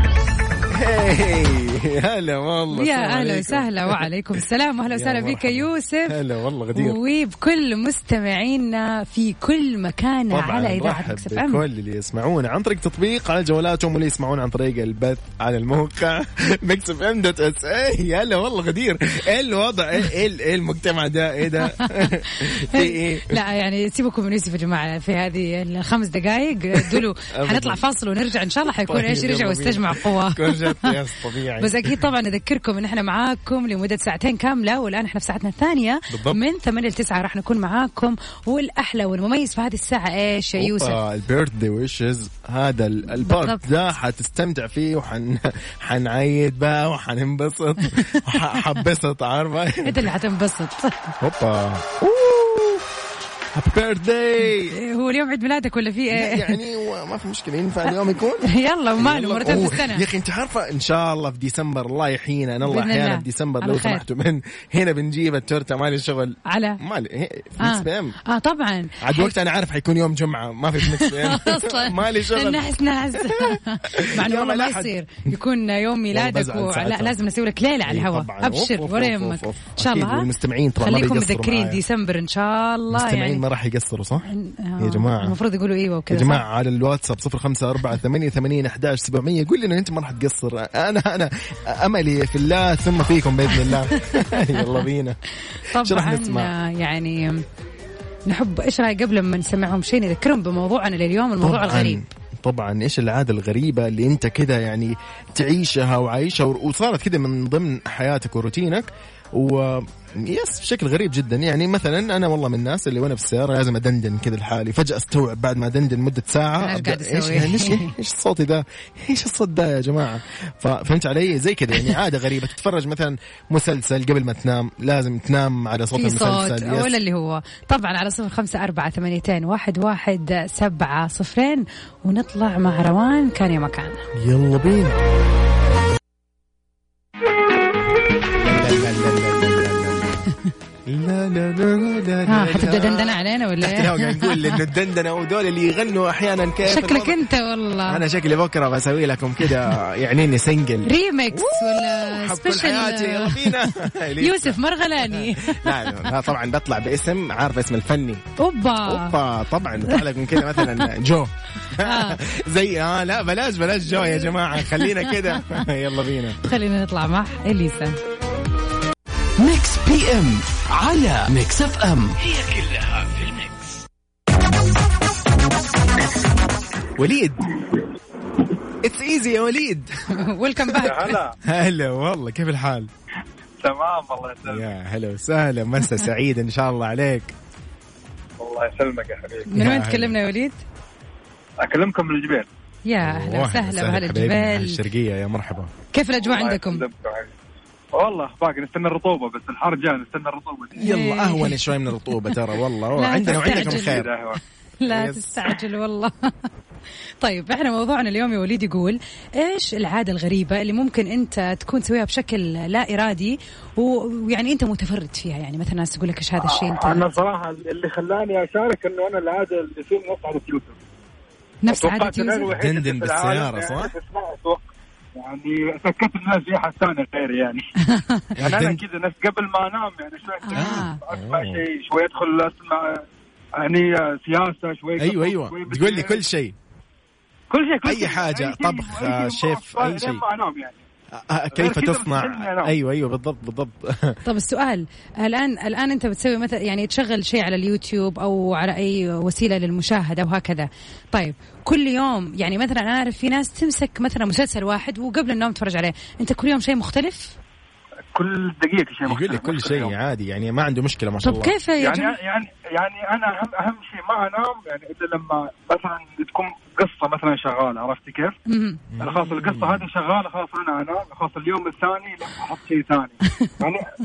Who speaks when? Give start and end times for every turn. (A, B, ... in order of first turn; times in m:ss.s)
0:00.7-0:04.0 A
0:02.7-0:06.2 B
0:04.9-0:07.0 A
0:06.7-0:11.6 B
0:10.3-0:23.4 A
0:21.6-0:30.9 B
0:26.7-0:27.8 A
0:28.8-0:32.0 A
0:31.6-0:41.0 B
0:36.1-0:36.4 A
0:40.6-0:50.1 A
0:43.2-0:43.6 B
0:47.9-0:48.7 B
0:49.8-0:51.1 B
0:51.2-0:52.8 A
0:53.5-0:54.8 A
0:54.5-0:56.6 B
0:56.1-1:08.2 A
0:58.4-1:00.0 B
1:02.6-1:04.0 B
1:06.5-1:06.8 B
1:07.6-1:09.3 B
1:09.0-1:15.3 A
1:10.8-1:20.3 B
1:16.1-1:17.2 A
1:17.8-1:21.8 A
1:20.8-1:23.4 B
1:22.9-1:25.4 A
1:24.2-1:26.4 B
1:26.1-1:35.2 A
1:33.7-1:34.8 B
1:35.5-1:37.4 B
1:35.8-1:36.5 A
1:38.3-1:42.0 B
1:41.4-2:06.9 A
1:56.6-1:57.9 B
2:05.9-2:14.0 B
2:14.2-2:15.0 A
2:18.3-2:20.2 A
2:20.9-2:27.2 A
2:22.3-2:24.6 B
2:26.6-2:28.0 B
2:27.8-2:38.2 A
2:30.8-2:36.1 B
2:38.4-2:39.2 B
2:38.8-2:46.4 A
2:39.9-2:40.9 B
2:41.8-2:42.2 B
2:44.6-2:45.6 B
2:46.4-2:48.0 B
2:49.4-2:53.5 C
2:57.0-2:57.5 A
2:58.8-2:59.9 A
3:00.1-3:01.2 B
3:00.8-3:01.4 D
3:01.4-3:02.9 A
3:03.6-3:04.6 D
3:04.4-3:07.3 A
3:08.4-3:09.5 D
3:09.5-3:10.6 B
3:09.5-3:10.2 A
3:11.6-3:12.5 D
3:12.9-3:14.8 B
3:13.0-3:15.7 A
3:15.9-3:16.8 B
3:16.2-3:17.3 D
3:17.9-3:20.8 D
3:20.8-3:24.1 A
3:20.8-3:22.4 B
3:23.0-3:24.1 B
3:23.4-3:24.4 D
3:24.8-3:26.5 B
3:24.8-3:25.5 A
3:27.2-3:37.1 B
3:36.4-3:40.8 D
3:41.6-3:42.5 B
3:41.7-3:47.6 D
3:42.5-3:43.9 A
3:47.9-3:48.3 B
3:48.4-3:53.0 D
3:48.4-3:48.8 A
3:50.4-3:51.0 B
3:50.6-3:51.6 A
3:53.6-3:56.2 D
3:55.0-3:56.6 A
3:57.5-4:00.8 D
3:57.8-4:00.2 A
4:01.1-4:04.2 A
4:01.5-4:02.7 D
4:04.2-4:17.4 B
4:18.1-4:19.9 D
4:19.0-4:21.5 A
4:21.2-4:22.2 B
4:21.8-4:28.4 D
4:28.5-4:28.8 B
4:28.9-4:29.8 A
4:29.0-4:33.9 D